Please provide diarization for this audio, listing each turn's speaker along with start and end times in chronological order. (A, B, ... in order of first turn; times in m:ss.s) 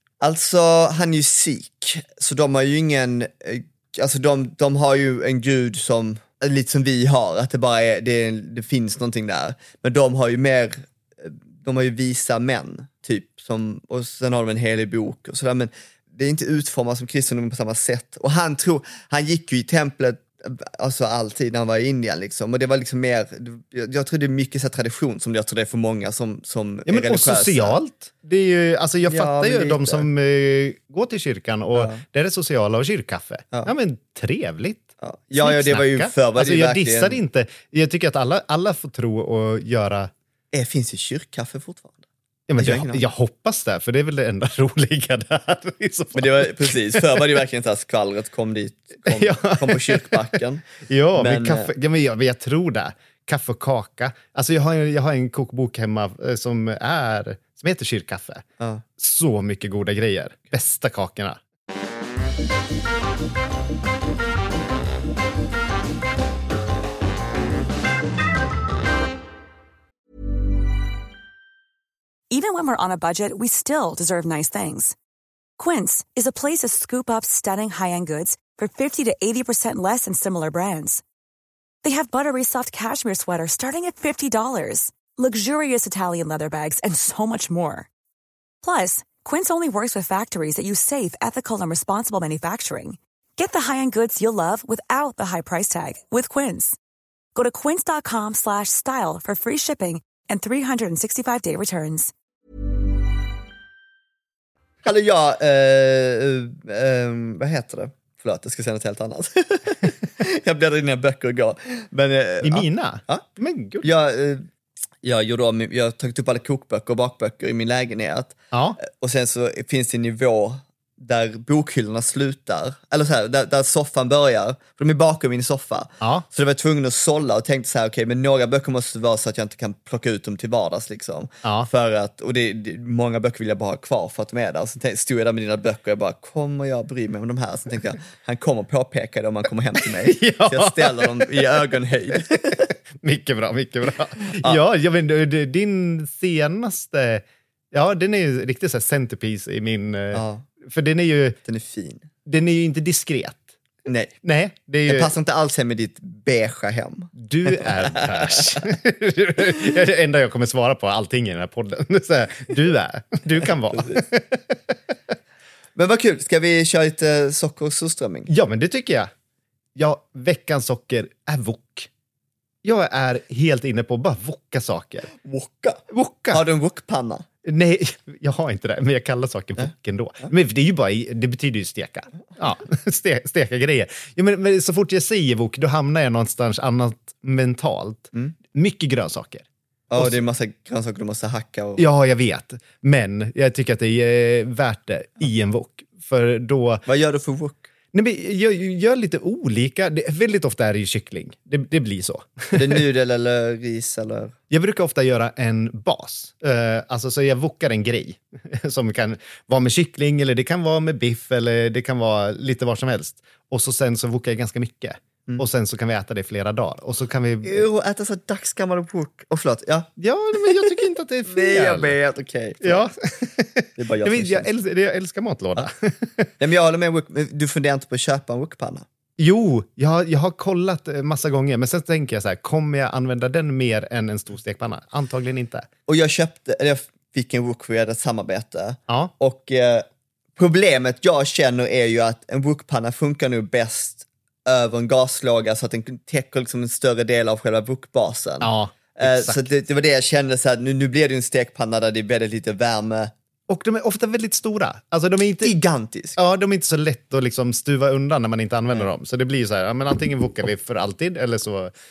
0:00.2-0:27.8 A
0:26.8-0:40.1 B
0:29.1-0:30.1 A
0:31.7-0:32.0 A
0:35.0-0:37.2 A
0:40.5-0:42.0 A
0:42.5-0:47.2 B
0:42.6-0:43.0 A
0:46.1-0:51.7 A
0:49.0-0:50.3 B
0:50.8-0:58.4 B
0:58.6-0:58.8 A
0:59.0-1:01.4 B
1:12.3-1:14.9 C
1:15.6-1:21.0 C
1:21.8-1:27.9 C
1:28.6-1:36.8 C
1:37.3-1:42.1 C
1:44.8-1:53.2 A
1:52.4-1:53.9 B
1:53.8-1:54.5 A
1:55.0-2:22.7 A
1:58.5-1:58.8 B
2:11.4-2:11.7 B
2:19.9-2:21.4 B
2:23.0-2:31.4 B
2:24.2-2:24.6 A
2:30.1-2:30.4 A
2:31.4-2:32.1 A
2:32.2-2:33.4 B
2:33.8-2:34.1 A
2:34.2-2:35.1 B
2:34.8-2:38.6 A
2:37.2-2:44.4 B
2:43.7-2:44.0 A
2:45.8-2:48.3 A
2:48.3-2:49.1 B
2:49.8-2:51.9 B
2:52.6-2:55.1 B
2:55.1-2:57.2 A
2:55.9-2:56.4 B
2:57.4-3:10.2 B
3:09.9-3:11.8 A
3:11.8-3:16.8 B
3:16.8-3:17.7 A
3:17.9-3:22.8 B
3:22.5-3:24.3 A
3:24.5-3:37.6 B
3:37.4-3:42.8 A
3:40.0-3:42.0 B
3:42.6-3:46.3 B
3:43.8-3:44.5 A
3:46.4-3:48.8 A
3:49.2-3:55.7 B
3:55.9-4:13.1 A
4:08.4-4:09.5 B
4:13.5-4:15.6 B
4:15.4-4:16.2 A
4:16.2-4:21.7 B